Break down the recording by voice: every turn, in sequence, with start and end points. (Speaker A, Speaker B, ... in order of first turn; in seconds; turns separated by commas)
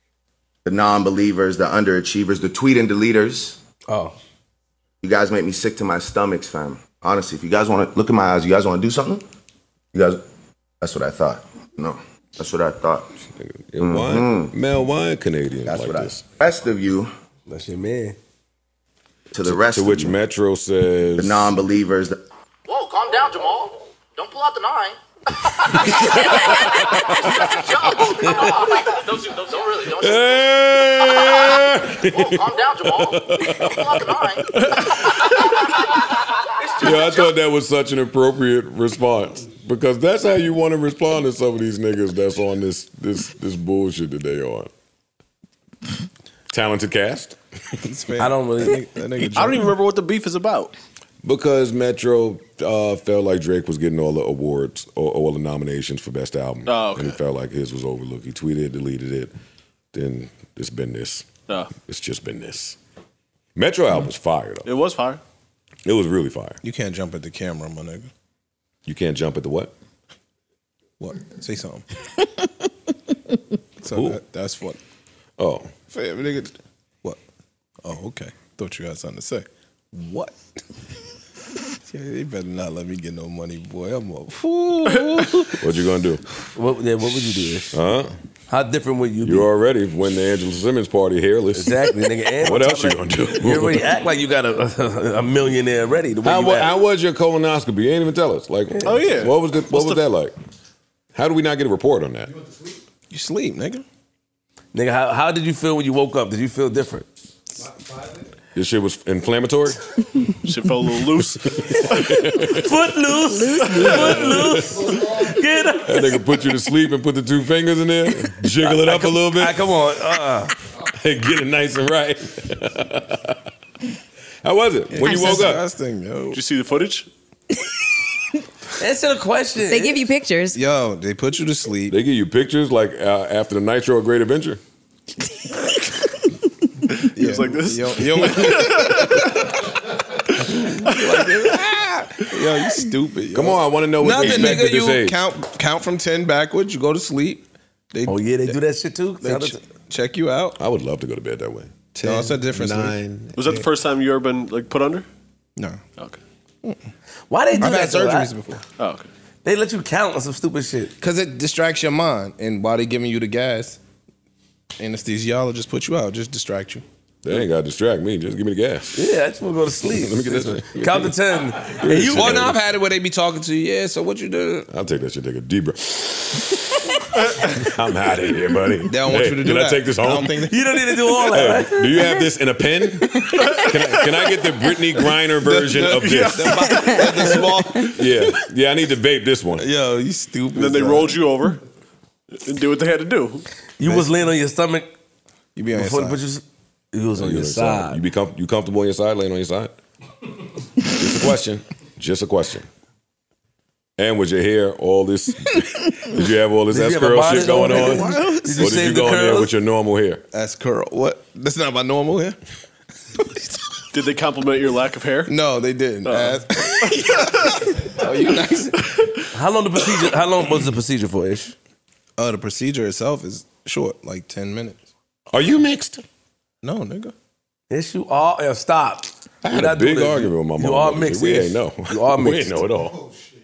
Speaker A: 0.7-3.6, Speaker B: 3.9-4.2, Speaker A: 5.0-9.2, Speaker A: 9.9-10.2, Speaker A: 10.8-13.1, Speaker C: 13.3-16.2, Speaker A: 13.8-14.5, Speaker A: 15.7-17.1, Speaker B: 17.5-18.2, Speaker A: 19.3-20.1, Speaker C: 19.4-21.5, Speaker A: 21.2-22.2, Speaker D: 22.7-34.5, Speaker C: 25.7-28.1, Speaker C: 29.9-35.3, Speaker D: 35.0-35.8, Speaker D: 36.6-37.3, Speaker C: 36.8-44.7, Speaker C: 46.5-47.4, Speaker E: 47.8-49.7, Speaker B: 48.2-48.8, Speaker F: 49.2-50.8, Speaker C: 51.2-59.3, Speaker F: 56.7-57.2, Speaker C: 59.9-61.3, Speaker F: 61.5-61.7, Speaker C: 61.8-62.8, Speaker C: 63.5-64.7, Speaker F: 64.7-65.2, Speaker C: 65.8-66.6, Speaker E: 66.6-68.1, Speaker C: 68.9-69.7, Speaker E: 71.0-71.8, Speaker E: 73.8-74.8, Speaker C: 73.9-74.2, Speaker C: 75.4-75.7, Speaker E: 75.9-77.2, Speaker E: 77.8-80.6, Speaker E: 81.9-85.6, Speaker C: 85.5-86.2, Speaker B: 86.5-87.8, Speaker C: 87.6-88.2, Speaker B: 88.5-89.5, Speaker C: 89.2-94.0, Speaker B: 91.5-96.7, Speaker C: 96.2-100.3, Speaker F: 98.8-100.0, Speaker C: 101.2-102.3, Speaker E: 103.1-103.8, Speaker B: 104.7-107.1, Speaker C: 108.5-109.8, Speaker F: 110.4-112.4, Speaker C: 111.2-112.7, Speaker B: 112.5-116.2, Speaker G: 113.3-114.3, Speaker F: 113.7-114.2, Speaker C: 113.8-115.2, Speaker C: 115.8-119.6, Speaker B: 118.6-120.5, Speaker C: 120.8-123.4, Speaker C: 124.4-125.7, Speaker E: 124.9-126.4, Speaker G: 125.0-125.5, Speaker F: 126.3-127.1, Speaker B: 128.8-130.0, Speaker G: 129.7-130.6, Speaker E: 130.6-132.0, Speaker C: 131.9-134.6, Speaker F: 137.0-139.5, Speaker E: 137.1-139.5, Speaker E: 140.4-148.6, Speaker F: 140.9-141.6, Speaker C: 143.3-145.2, Speaker B: 148.1-149.6, Speaker E: 149.2-150.6, Speaker C: 150.6-153.7, Speaker E: 152.0-153.0, Speaker F: 153.4-155.1, Speaker E: 155.6-155.8, Speaker B: 157.3-158.3, Speaker E: 157.6-158.6, Speaker F: 158.8-159.1, Speaker B: 159.4-160.9, Speaker E: 161.0-163.8, Speaker E: 164.8-166.8, Speaker C: 167.2-169.1, Speaker B: 168.9-172.5, Speaker C: 169.9-172.6, Speaker E: 172.0-174.7, Speaker C: 174.7-180.4, Speaker E: 178.9-180.6, Speaker B: 180.5-181.9, Speaker C: 181.3-186.7, Speaker E: 185.4-188.1, Speaker F: 185.9-187.6, Speaker C: 187.9-189.7, Speaker E: 189.6-191.2, Speaker F: 190.6-191.6, Speaker F: 192.4-193.5, Speaker B: 193.8-194.9, Speaker E: 195.6-196.2, Speaker B: 195.7-198.0, Speaker C: 197.2-199.7, Speaker C: 200.8-202.7, Speaker C: 204.0-210.2, Speaker B: 206.7-209.5, Speaker E: 207.4-208.8, Speaker E: 210.3-212.4, Speaker E: 213.2-213.7, Speaker F: 213.9-215.3, Speaker E: 215.3-219.1, Speaker F: 216.1-217.6, Speaker B: 219.3-221.6, Speaker E: 222.2-224.8, Speaker C: 225.3-226.0, Speaker E: 226.6-227.1, Speaker B: 227.7-232.6, Speaker C: 229.4-233.1